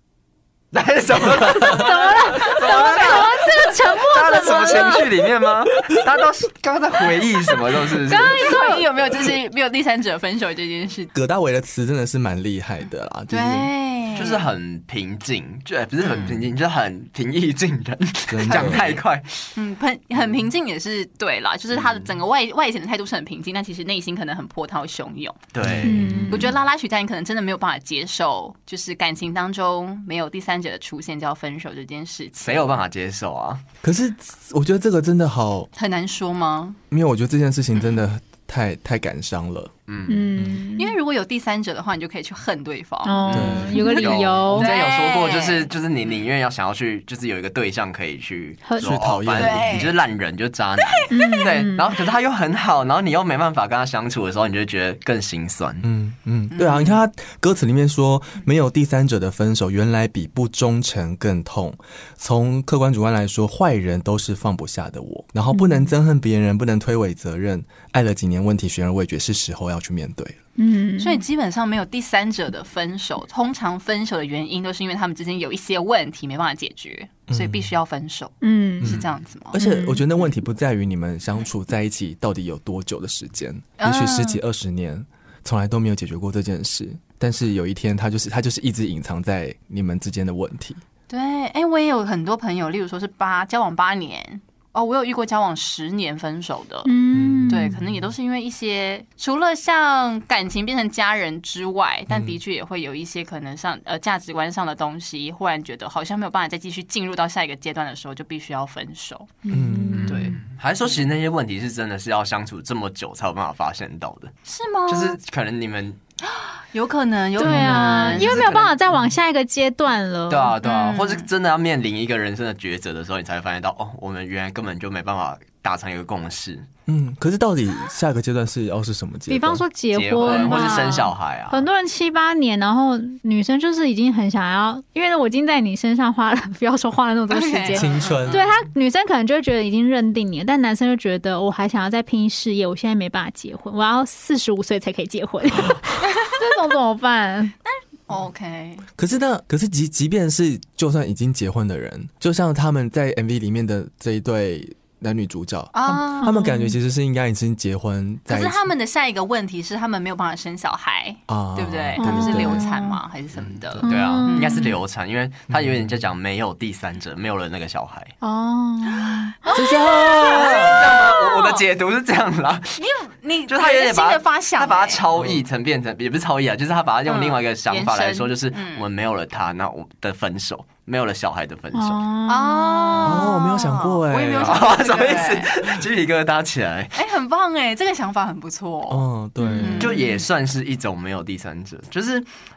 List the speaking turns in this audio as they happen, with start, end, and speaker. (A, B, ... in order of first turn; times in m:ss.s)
0:00.7-0:08.6 A
0:01.7-0:05.1 B
0:01.8-0:05.0 C
0:07.8-0:11.1 C
0:08.3-0:08.8 B
0:11.1-0:13.7 D
0:13.3-0:14.4 C
0:14.1-0:19.6 A
0:16.0-0:16.4 C
0:18.3-0:19.0 D
0:18.5-0:19.0 C
0:19.6-0:25.4 C
0:21.7-0:22.2 A
0:25.5-0:26.6 A
0:25.6-0:26.4 D
0:25.8-0:26.4 B
0:26.3-0:32.8 C
0:32.4-0:33.6 A
0:33.8-0:35.7 D
0:35.8-0:36.8 C
0:36.9-0:39.7 D
0:39.9-0:40.4 A
0:40.1-0:40.9 B
0:40.8-0:46.2 C
0:43.0-0:44.7 B
0:43.3-0:55.9 A
0:43.3-0:43.8 D
0:48.6-0:48.9 B
0:48.8-0:49.7 D
0:49.3-0:50.0 C
0:50.8-0:51.4 C
0:51.1-0:51.8 B
0:55.8-1:10.4 D
0:56.5-0:57.0 C
1:05.5-1:05.8 B
1:10.6-1:11.2 B
1:11.0-1:19.6 C
1:17.3-1:17.7 D
1:18.4-1:19.0 B
1:18.8-1:30.8 D
1:19.5-1:20.0 B
1:23.8-1:24.4 C
1:31.1-1:36.9 C
1:36.8-1:37.7 B
1:37.1-1:37.8 D
1:37.5-1:49.4 C
1:42.1-1:42.4 D
1:49.4-1:50.4 B
1:49.5-1:50.4 D
1:50.1-1:51.0 C
1:50.4-1:54.3 A
1:54.4-1:55.2 C
1:54.9-1:56.0 A
1:56.2-1:58.5 C
1:57.4-2:00.5 B
1:57.4-1:58.0 D
1:57.8-1:58.8 A
2:00.3-2:06.7 A
2:00.6-2:01.3 C
2:06.9-2:09.6 D
2:09.3-2:27.5 B
2:09.9-2:11.7 A
2:10.3-2:10.6 D
2:17.3-2:18.4 C
2:17.7-2:18.4 D
2:27.6-2:28.8 C
2:29.0-2:38.6 D
2:35.7-2:36.5 C
2:36.2-2:36.7 B
2:38.3-2:44.8 C
2:41.3-2:42.7 D
2:42.0-2:43.0 B
2:43.5-2:48.1 A
2:43.8-2:44.7 B
2:45.5-2:45.8 D
2:48.2-2:49.5 B
2:48.9-2:51.6 C
2:49.6-2:50.7 D
2:49.6-2:52.9 A
2:52.8-2:55.0 C
2:53.5-3:02.1 A
2:57.0-2:58.8 C
3:01.7-3:03.0 B
3:02.3-3:05.5 C
3:03.0-3:05.0 D
3:04.4-3:07.1 A
3:07.0-3:09.0 C
3:08.9-3:09.9 D
3:09.4-3:09.8 B
3:09.6-3:10.2 C
3:09.8-3:12.3 A